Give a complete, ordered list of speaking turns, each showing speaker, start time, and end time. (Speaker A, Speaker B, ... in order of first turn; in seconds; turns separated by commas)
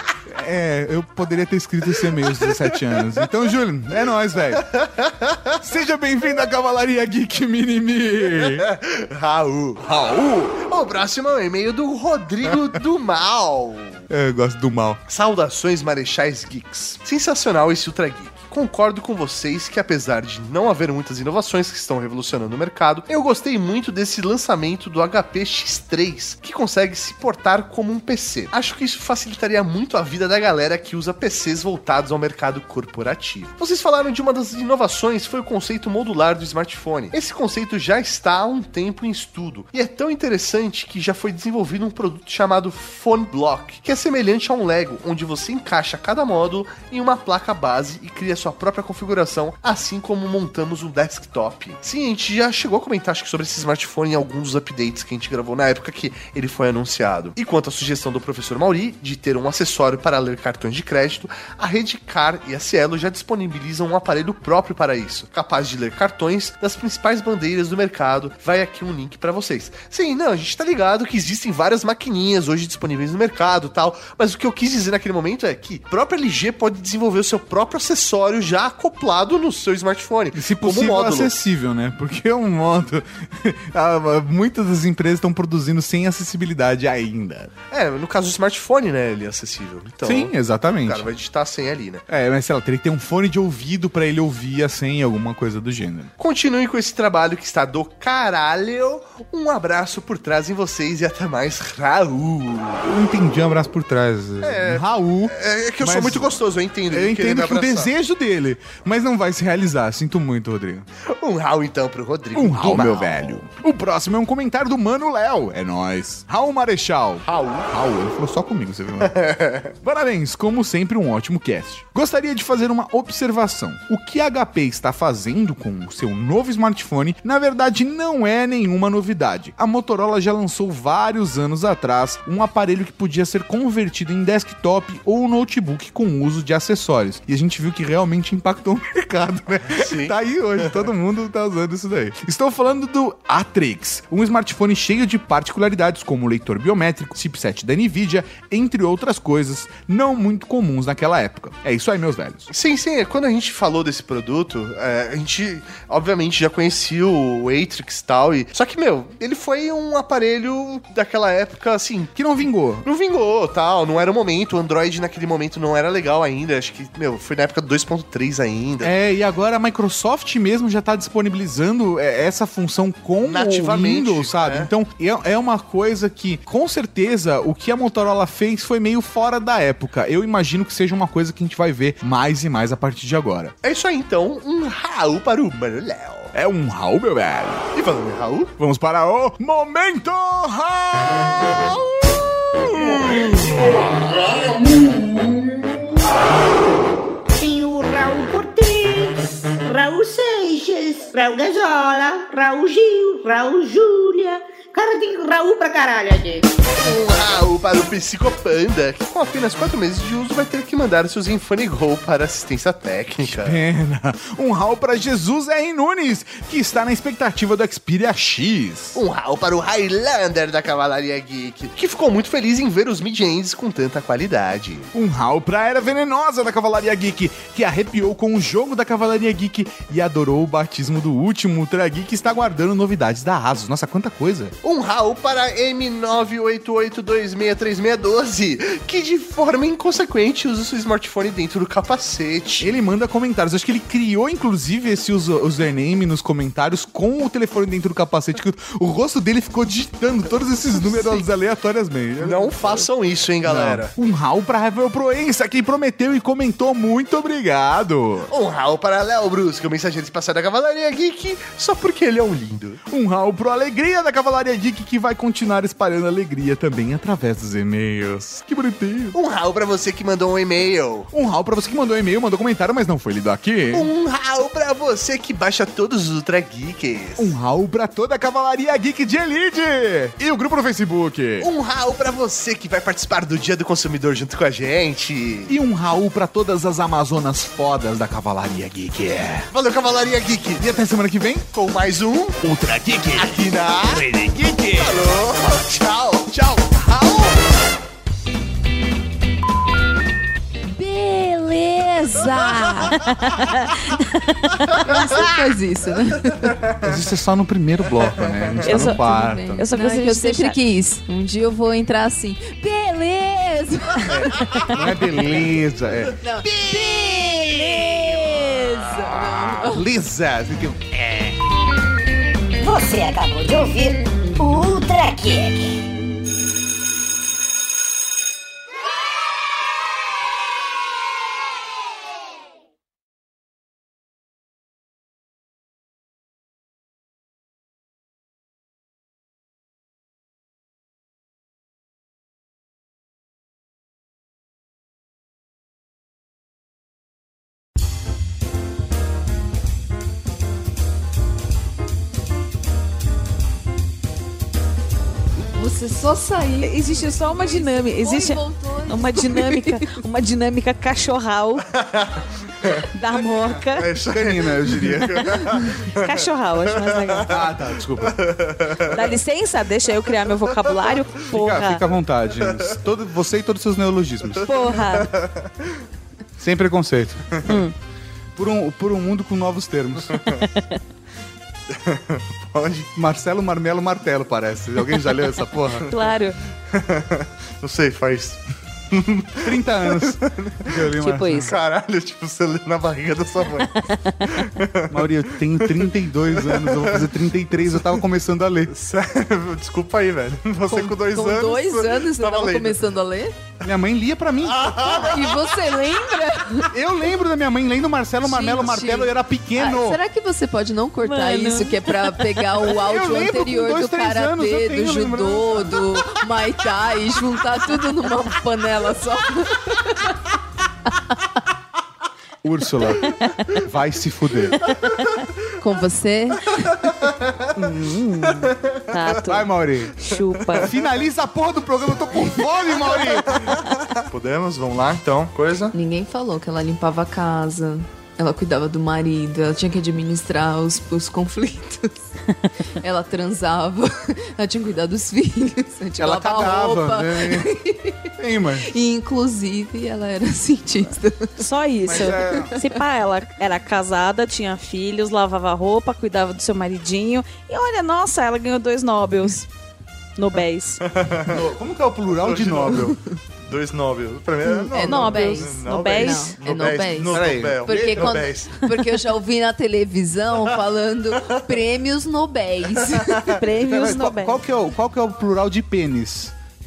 Speaker A: 0.3-4.7, Speaker B: 1.9-3.1, Speaker B: 4.5-5.6, Speaker A: 5.6-8.7, Speaker B: 8.6-9.8, Speaker A: 9.8-10.6, Speaker B: 10.6-14.0, Speaker A: 14.1-15.0, Speaker B: 15.1-81.3, Speaker A: 80.3-87.5, Speaker B: 87.7-90.3, Speaker A: 90.0-91.1, Speaker B: 90.8-92.0, Speaker A: 92.1-96.1, Speaker B: 96.2-102.8, Speaker A: 102.8-106.4, Speaker B: 104.4-107.9, Speaker A: 106.9-110.9, Speaker B: 111.1-113.1, Speaker A: 112.3-119.2, Speaker B: 117.2-117.7, Speaker B: 119.0-119.7, Speaker A: 119.8-152.5, Speaker B: 139.8-140.7, Speaker B: 152.5-162.2, Speaker A: 162.2-162.9, Speaker B: 162.8-168.9, Speaker A: 168.8-183.6, Speaker B: 173.2-174.7, Speaker B: 183.6-186.3, Speaker A: 186.3-187.7, Speaker B: 187.8-188.5, Speaker A: 188.6-193.8, Speaker C: 194.2-195.8, Speaker C: 197.4-206.5, Speaker B: 206.8-213.6, Speaker A: 213.2-219.0, Speaker B: 218.9-224.9, Speaker A: 224.9-234.6, Speaker B: 234.6-242.7, Speaker A: 242.6-252.9, Speaker B: 252.2-253.9, Speaker A: 253.4-258.3, Speaker B: 258.3-262.8, Speaker A: 262.9-269.2, Speaker B: 269.1-271.1, Speaker A: 271.1-273.9, Speaker B: 273.7-277.3, Speaker A: 277.2-281.5, Speaker B: 281.4-285.5, Speaker A: 285.5-289.5, Speaker B: 289.5-290.7, Speaker A: 290.6-291.5, Speaker B: 291.5-292.4, Speaker A: 292.4-295.0, Speaker B: 293.1-294.1, Speaker B: 294.8-296.4, Speaker A: 296.3-297.3, Speaker D: 300.7-303.1, Speaker E: 303.1-304.8, Speaker D: 304.8-306.6, Speaker A: 306.8-309.6, Speaker E: 308.6-309.0, Speaker D: 308.7-314.7, Speaker E: 309.6-310.6, Speaker A: 314.1-318.0, Speaker E: 314.1-314.9, Speaker D: 316.2-319.8, Speaker A: 319.3-321.4, Speaker C: 322.6-325.8, Speaker D: 355.5-359.9, Speaker E: 356.6-361.7, Speaker B: 361.8-362.8, Speaker E: 362.9-364.0, Speaker B: 363.8-369.1, Speaker A: 364.0-365.5, Speaker E: 365.2-367.4, Speaker A: 367.3-368.2, Speaker E: 368.9-371.9, Speaker A: 371.3-374.5, Speaker E: 374.4-375.1, Speaker B: 374.8-375.8, Speaker A: 376.4-377.4, Speaker E: 377.4-377.8, Speaker A: 378.4-380.2, Speaker B: 380.1-380.4, Speaker E: 380.4-380.8, Speaker B: 381.7-382.9, Speaker A: 382.9-385.9, Speaker B: 384.9-385.9, Speaker E: 385.9-386.4, Speaker B: 386.7-398.1, Speaker A: 389.4-391.6, Speaker E: 391.0-391.6, Speaker E: 393.7-394.5, Speaker A: 394.9-398.7, Speaker B: 398.7-402.8, Speaker D: 400.7-403.4, Speaker A: 403.6-405.1, Speaker B: 404.4-405.6, Speaker D: 404.8-406.7, Speaker A: 406.7-410.0, Speaker D: 408.2-420.1, Speaker E: 411.1-412.3, Speaker A: 412.7-415.9, Speaker A: 422.4-424.7, Speaker B: 424.6-425.1, Speaker D: 425.6-426.9, Speaker B: 427.1-427.5, Speaker E: 427.5-430.7, Speaker B: 428.4-429.0, Speaker A: 429.3-429.9, Speaker B: 430.4-430.7, Speaker A: 430.6-433.6, Speaker B: 432.8-435.7, Speaker D: 435.7-442.1, Speaker D: 442.8-448.1, Speaker A: 446.0-447.5, Speaker A: 448.2-448.7, Speaker D: 448.6-452.6, Speaker E: 451.4-459.5, Speaker A: 451.9-452.5, Speaker E: 460.2-460.8, Speaker B: 460.9-461.4, Speaker A: 461.3-463.0, Speaker B: 462.1-468.6, Speaker E: 464.4-466.4, Speaker D: 464.7-473.4, Speaker A: 467.1-468.2, Speaker B: 473.1-473.3, Speaker E: 473.3-474.4, Speaker A: 473.7-476.3